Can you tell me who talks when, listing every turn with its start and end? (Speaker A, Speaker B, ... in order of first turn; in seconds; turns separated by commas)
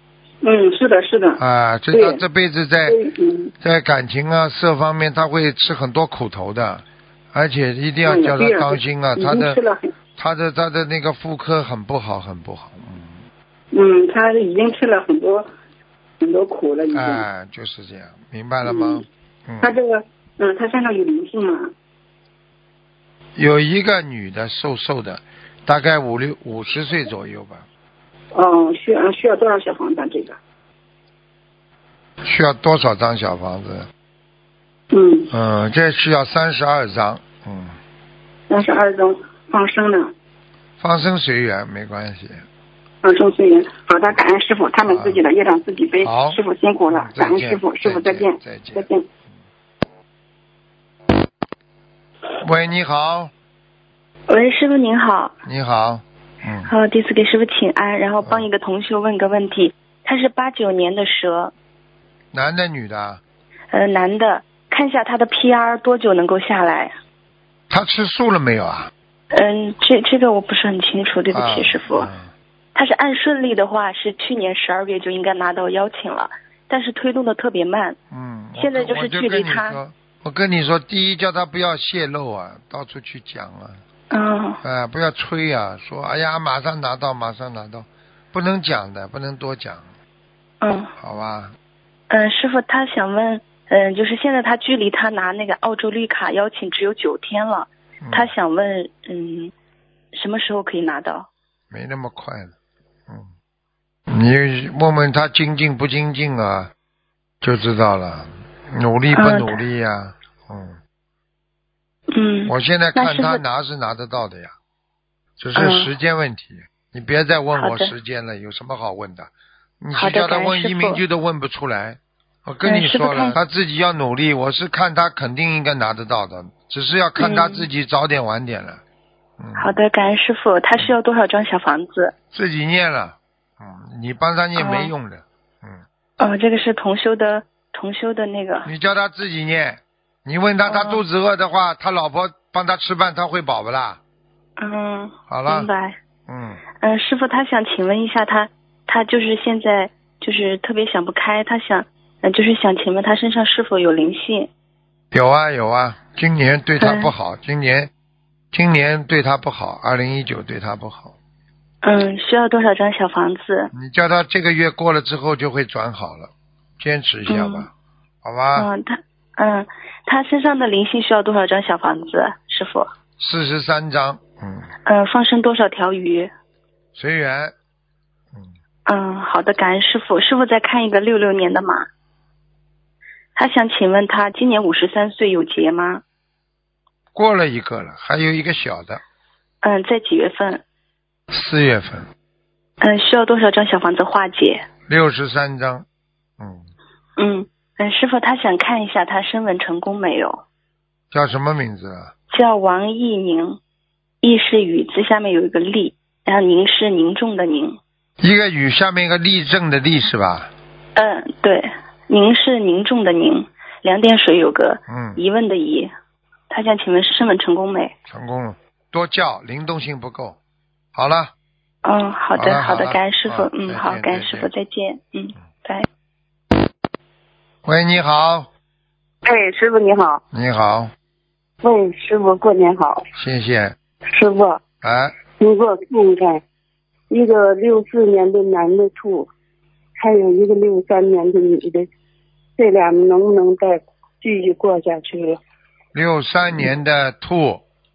Speaker A: 0.4-1.4, Speaker B: 1.4-3.0, Speaker A: 1.9-2.2, Speaker A: 2.9-3.5, Speaker B: 3.6-9.6, Speaker A: 8.0-9.9, Speaker B: 10.2-13.2, Speaker A: 13.7-15.5, Speaker A: 16.2-17.2, Speaker B: 16.9-19.7, Speaker A: 18.6-19.0, Speaker A: 19.6-21.7, Speaker B: 23.4-27.6, Speaker A: 28.3-30.4, Speaker B: 32.2-33.9, Speaker A: 34.9-35.3, Speaker B: 35.3-37.8, Speaker A: 38.5-40.1, Speaker B: 40.8-42.4, Speaker A: 43.0-49.0, Speaker B: 44.8-45.2, Speaker B: 46.0-46.4, Speaker B: 46.9-48.9, Speaker B: 52.4-53.3, Speaker C: 54.3-55.3, Speaker B: 55.4-56.7, Speaker C: 56.7-61.5, Speaker B: 58.2-58.5, Speaker B: 62.3-63.2, Speaker C: 63.7-66.9, Speaker B: 67.7-68.9, Speaker C: 69.3-72.1, Speaker B: 71.3-72.3, Speaker C: 72.7-78.0, Speaker B: 78.1-83.8, Speaker C: 78.6-79.8, Speaker C: 84.1-84.6, Speaker B: 84.6-89.8, Speaker C: 90.6-90.9, Speaker B: 91.0-91.5, Speaker C: 92.1-99.5, Speaker B: 98.0-98.3, Speaker C: 100.1-101.3, Speaker B: 101.7-102.5, Speaker B: 104.1-106.7, Speaker B: 107.4-110.8, Speaker C: 109.1-109.6, Speaker C: 112.1-113.4, Speaker B: 112.5-114.5, Speaker B: 115.4-119.3, Speaker C: 115.5-115.9, Speaker C: 117.5-117.9, Speaker B: 119.8-128.8, Speaker C: 119.9-121.0, Speaker C: 122.6-123.4, Speaker C: 127.2-127.7, Speaker B: 129.4-129.8, Speaker C: 129.6-132.1, Speaker B: 132.3-135.8, Speaker C: 134.5-134.9, Speaker C: 136.2-138.7, Speaker B: 138.7-144.0, Speaker C: 140.6-141.0, Speaker C: 144.6-146.0, Speaker B: 145.3-145.7, Speaker B: 146.3-146.6, Speaker C: 146.8-154.5, Speaker B: 155.1-157.9, Speaker C: 156.8-157.1, Speaker B: 158.5-161.1, Speaker C: 161.8-163.7, Speaker B: 163.7-167.7, Speaker C: 167.3-167.7, Speaker B: 168.2-168.7, Speaker C: 168.5-172.9, Speaker B: 173.2-174.7, Speaker C: 174.8-176.3, Speaker B: 176.9-177.5, Speaker C: 178.8-181.9, Speaker C: 183.3-186.0, Speaker B: 187.1-189.0, Speaker C: 189.6-190.6, Speaker B: 191.3-192.1, Speaker C: 192.8-194.6, Speaker B: 194.9-195.8, Speaker B: 196.4-196.7, Speaker C: 197.2-200.4, Speaker B: 201.1-202.1, Speaker C: 202.3-203.6, Speaker C: 204.2-207.8, Speaker B: 208.2-210.5, Speaker C: 210.9-215.9, Speaker B: 214.9-215.2, Speaker C: 216.5-217.9, Speaker B: 218.1-220.4, Speaker B: 220.9-221.3, Speaker C: 221.8-225.8, Speaker B: 222.3-224.5, Speaker B: 227.6-228.5, Speaker D: 229.2-230.2, Speaker B: 230.3-230.9, Speaker D: 231.6-233.0, Speaker B: 233.1-233.7, Speaker D: 234.1-234.6, Speaker B: 234.8-235.2, Speaker D: 235.4-236.4, Speaker D: 237.1-239.3, Speaker D: 240.0-241.8, Speaker D: 242.6-245.4, Speaker B: 245.9-247.6